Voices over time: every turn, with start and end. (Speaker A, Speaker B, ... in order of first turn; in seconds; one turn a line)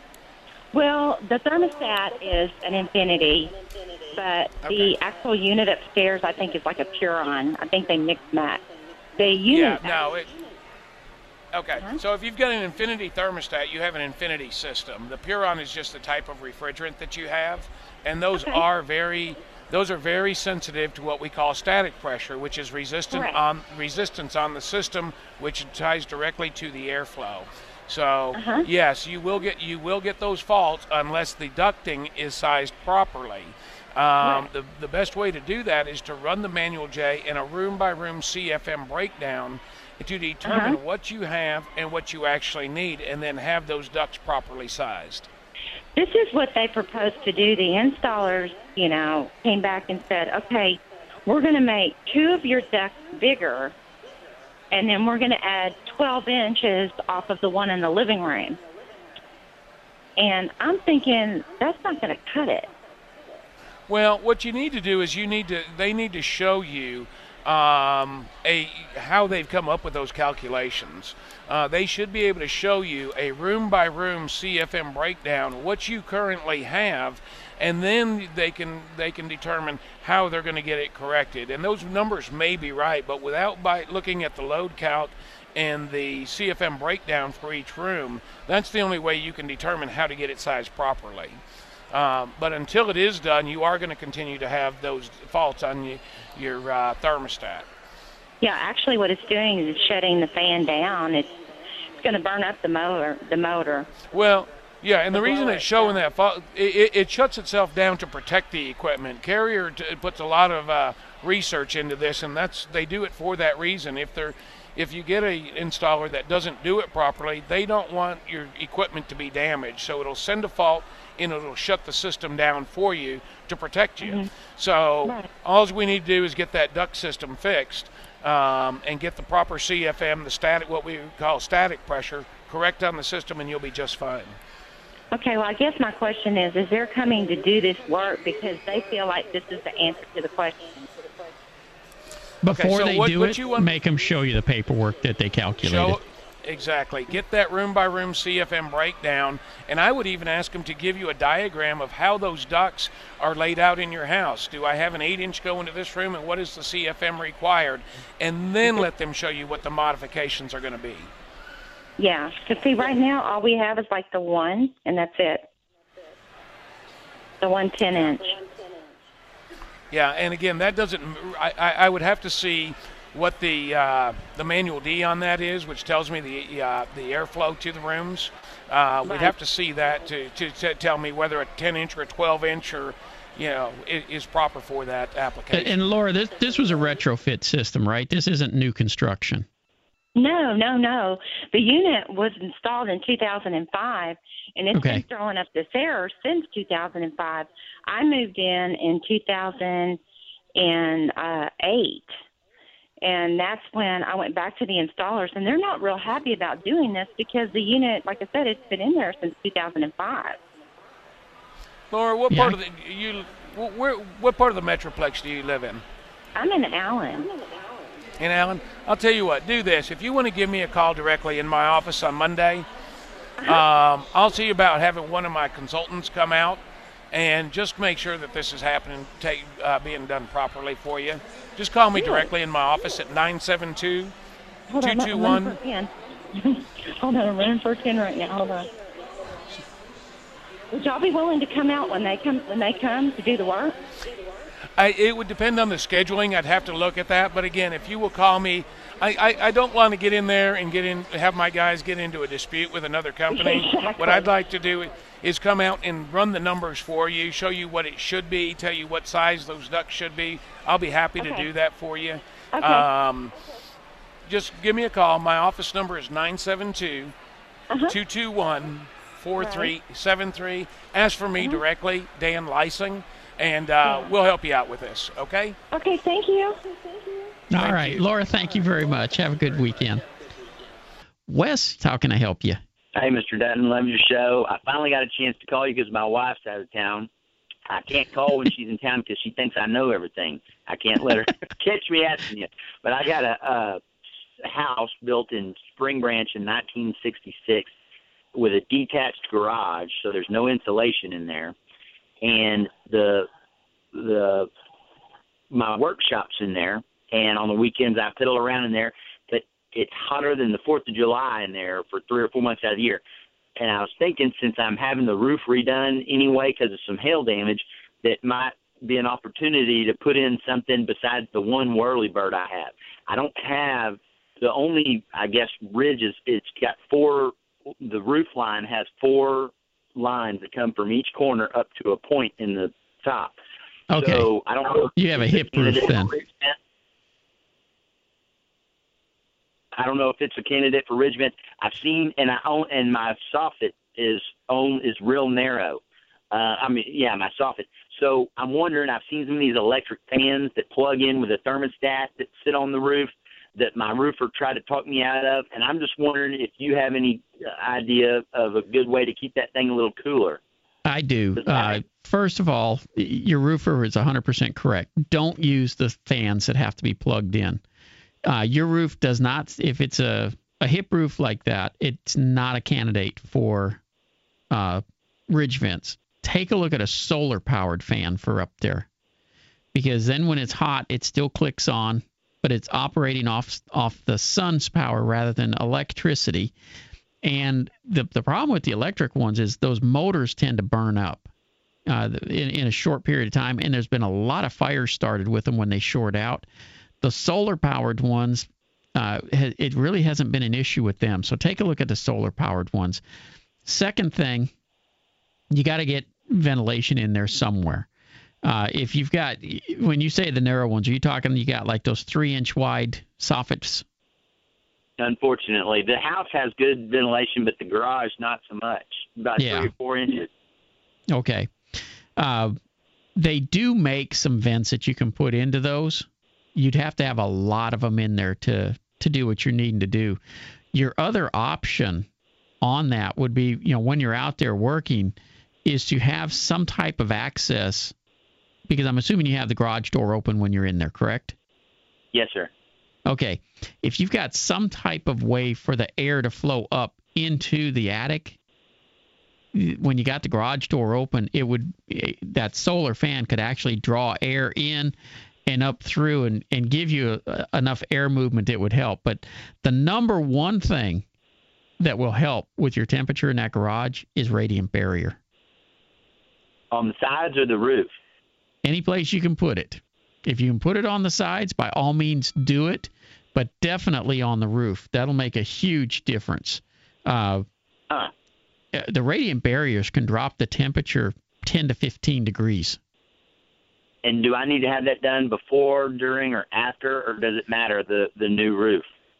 Speaker A: 0.7-3.5
Speaker A: 4.1-8.6
Speaker B: 4.6-4.9
Speaker A: 9.2-10.0
Speaker B: 9.5-10.3
Speaker B: 11.5-45.3
Speaker A: 18.4-18.6
Speaker A: 23.1-23.4
Speaker A: 28.3-28.7
Speaker A: 34.2-34.5
Speaker A: 40.4-40.8
Speaker A: 45.9-53.8
Speaker A: 54.7-58.6
Speaker A: 60.2-62.7
Speaker B: 63.9-91.4
Speaker B: 91.9-97.7
Speaker A: 98.4-101.4
Speaker A: 101.9-104.0
Speaker B: 104.1-134.4
Speaker A: 105.1-106.0
Speaker A: 124.0-124.3
Speaker A: 135.1-140.9
Speaker C: 142.4-146.0
Speaker B: 142.5-143.7
Speaker B: 145.6-161.1
Speaker A: 162.0-165.5
Speaker A: 167.4-168.4
Speaker B: 169.9-185.8
Speaker A: 179.0-179.3
Speaker C: 185.5-189.5
Speaker A: 190.2-200.0
Speaker C: 194.7-195.0
Speaker A: 200.6-202.1
Speaker A: 203.0-210.4
Speaker B: 211.9-215.8
Speaker C: 212.3-212.6
Speaker A: 216.3-217.3
Speaker B: 218.2-222.7
Speaker B: 223.5-226.6
Speaker B: 227.1-234.1
Speaker A: 231.9-232.3
Speaker A: 234.7-238.7
Speaker B: 234.8-235.6
Speaker A: 240.7-243.8
Speaker B: 244.8-263.3
Speaker A: 253.3-254.3
Speaker A: 261.2-261.5
Speaker A: 262.5-262.9
Speaker B: 264.3-267.1
Speaker A: 267.7-268.0
Speaker B: 267.9-275.6
Speaker A: 269.4-269.7
Speaker A: 271.4-271.6
Speaker A: 273.8-274.1
Speaker A: 275.7-276.6
Speaker C: 277.5-280.0
Speaker B: 277.5-278.0
Speaker C: 281.3-282.6
Speaker D: 282.9-287.1
Speaker D: 287.7-293.8
Speaker D: 294.4-297.7
Speaker D: 298.3-301.5
Speaker D: 302.2-303.3
Speaker D: 303.9-304.5
Speaker D: 305.5-313.0
Speaker D: 313.6-333.3
Speaker C: 333.9-334.3
Speaker D: 333.9-336.5
Speaker C: 334.8-336.2
Speaker D: 339.7-360.4
Speaker C: 360.9-367.6
Speaker D: 361.4-361.8
Speaker C: 368.2-373.8
Speaker C: 374.5-378.9
Speaker C: 379.7-386.5
Speaker C: 387.2-391.2
Speaker C: 391.9-396.4
Speaker C: 397.0-403.0
Speaker C: 403.6-404.5
Speaker C: 405.5-407.9
Speaker C: 408.4-413.8
Speaker D: 415.0-420.3
Speaker C: 419.4-419.7
Speaker C: 421.1-421.5
Speaker C: 422.2-422.6
Speaker C: 423.2-430.2
Speaker C: 430.7-432.1
Speaker C: 432.6-437.9
Speaker C: 438.7-441.3
Speaker D: 442.1-442.5
Speaker C: 443.1-448.4
Speaker C: 449.5-454.9
Speaker C: 455.5-461.0
Speaker C: 461.8-465.2
Speaker D: 466.7-467.9
Speaker C: 468.6-477.4
Speaker C: 478.7-482.8
Speaker D: 484.0-488.9